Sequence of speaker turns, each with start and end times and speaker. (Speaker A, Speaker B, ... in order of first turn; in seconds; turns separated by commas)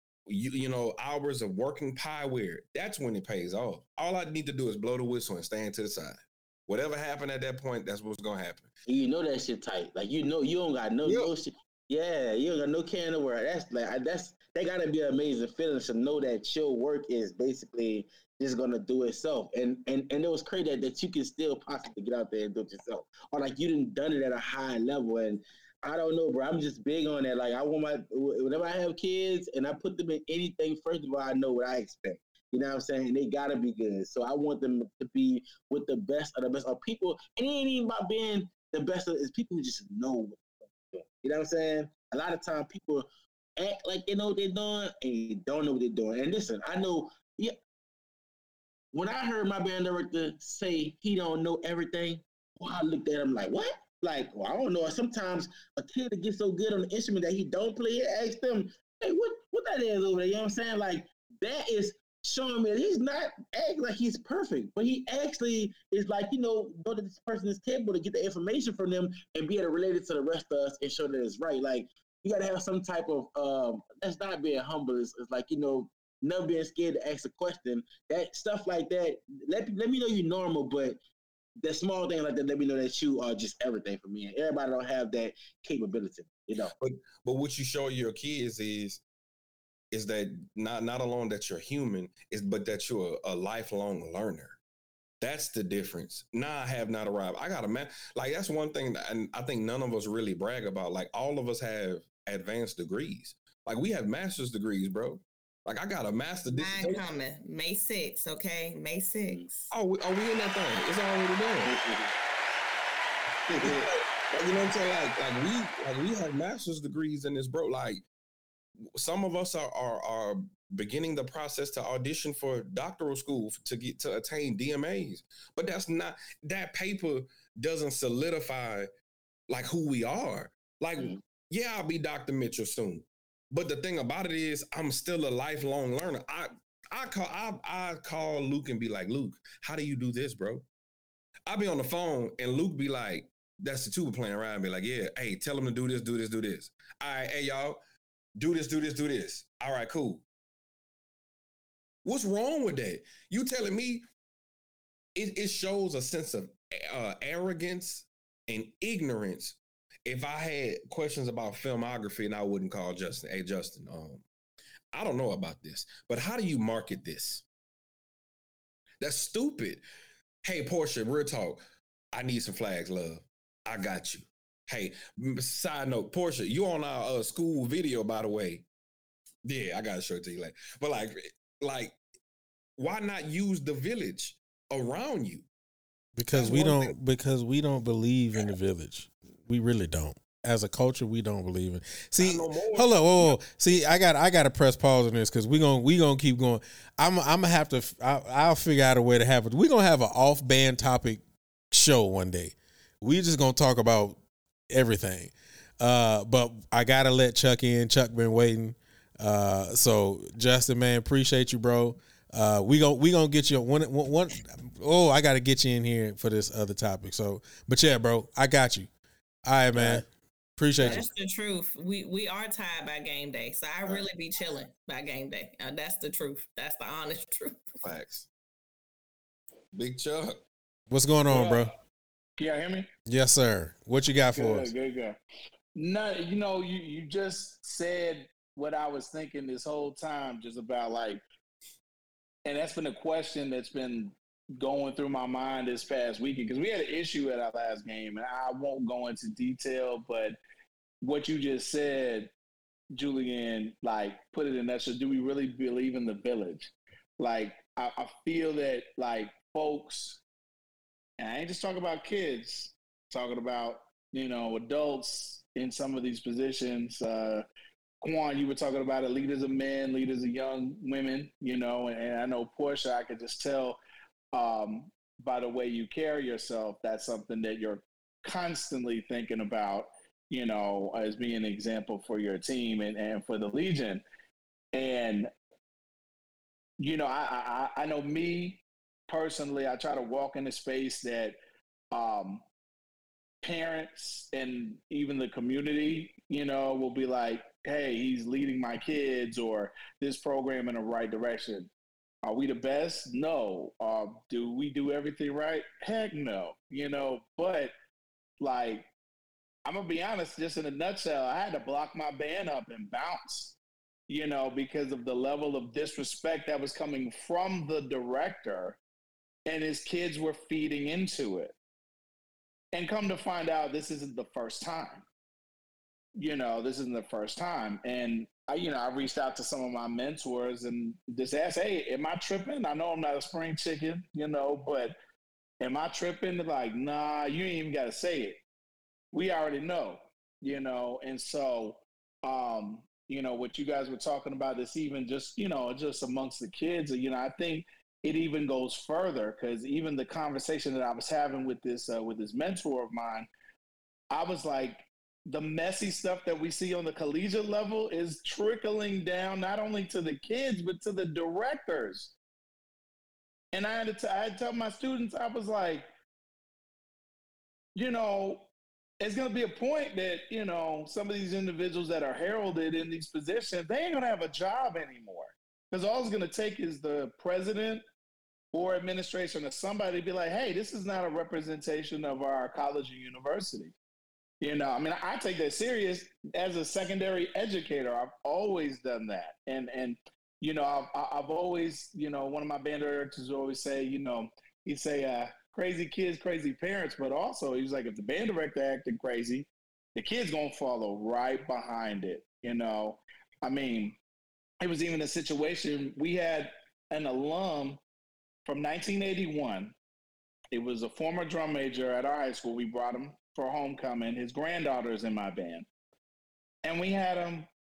Speaker A: 0.3-8.7, Speaker B: 8.9-43.1, Speaker A: 11.0-11.3, Speaker B: 43.6-47.6, Speaker B: 48.9-81.0, Speaker B: 81.6-86.7, Speaker A: 86.8-89.0, Speaker A: 89.9-94.6, Speaker A: 95.2-107.0, Speaker C: 106.6-109.7, Speaker A: 109.7-111.7, Speaker B: 111.6-112.2, Speaker B: 113.5-113.9, Speaker A: 113.6-118.0, Speaker A: 119.0-128.9, Speaker A: 129.5-140.7, Speaker A: 141.5-147.8, Speaker A: 148.4-150.2, Speaker A: 152.1-154.1, Speaker A: 155.2-164.2, Speaker A: 164.9-167.4, Speaker A: 169.0-169.8, Speaker A: 170.4-171.6, Speaker A: 172.1-178.7, Speaker A: 179.4-182.0, Speaker A: 182.8-185.4, Speaker D: 186.2-204.2, Speaker A: 186.3-186.9, Speaker A: 192.2-193.4, Speaker D: 204.7-218.9, Speaker D: 219.4-220.1, Speaker A: 219.7-220.0, Speaker D: 220.6-221.1, Speaker C: 220.8-227.8, Speaker A: 227.8-228.3, Speaker A: 229.7-230.4, Speaker D: 230.9-231.7, Speaker E: 231.3-231.7, Speaker E: 232.4-232.9, Speaker D: 233.1-234.7, Speaker E: 234.3-235.2, Speaker E: 235.7-241.2, Speaker E: 242.4-250.4, Speaker E: 251.0-252.3, Speaker E: 252.9-260.2, Speaker E: 261.2-267.4, Speaker E: 268.0-273.8, Speaker E: 274.3-284.1, Speaker E: 284.7-285.3, Speaker E: 286.8-291.4, Speaker E: 291.9-292.4, Speaker E: 293.4-301.7, Speaker E: 302.2-307.7, Speaker E: 308.4-308.9, Speaker E: 309.6-313.6, Speaker E: 314.1-318.8, Speaker E: 319.5-321.6, Speaker E: 322.7-325.1, Speaker E: 326.1-334.9, Speaker E: 335.6-338.4, Speaker E: 339.1-353.3, Speaker E: 354.1-362.1, Speaker E: 363.5-365.9, Speaker E: 367.7-368.5, Speaker E: 369.0-377.8, Speaker E: 378.5-383.7, Speaker E: 384.4-404.0, Speaker E: 404.6-407.8, Speaker E: 408.4-409.8, Speaker E: 410.5-415.7, Speaker E: 416.6-417.5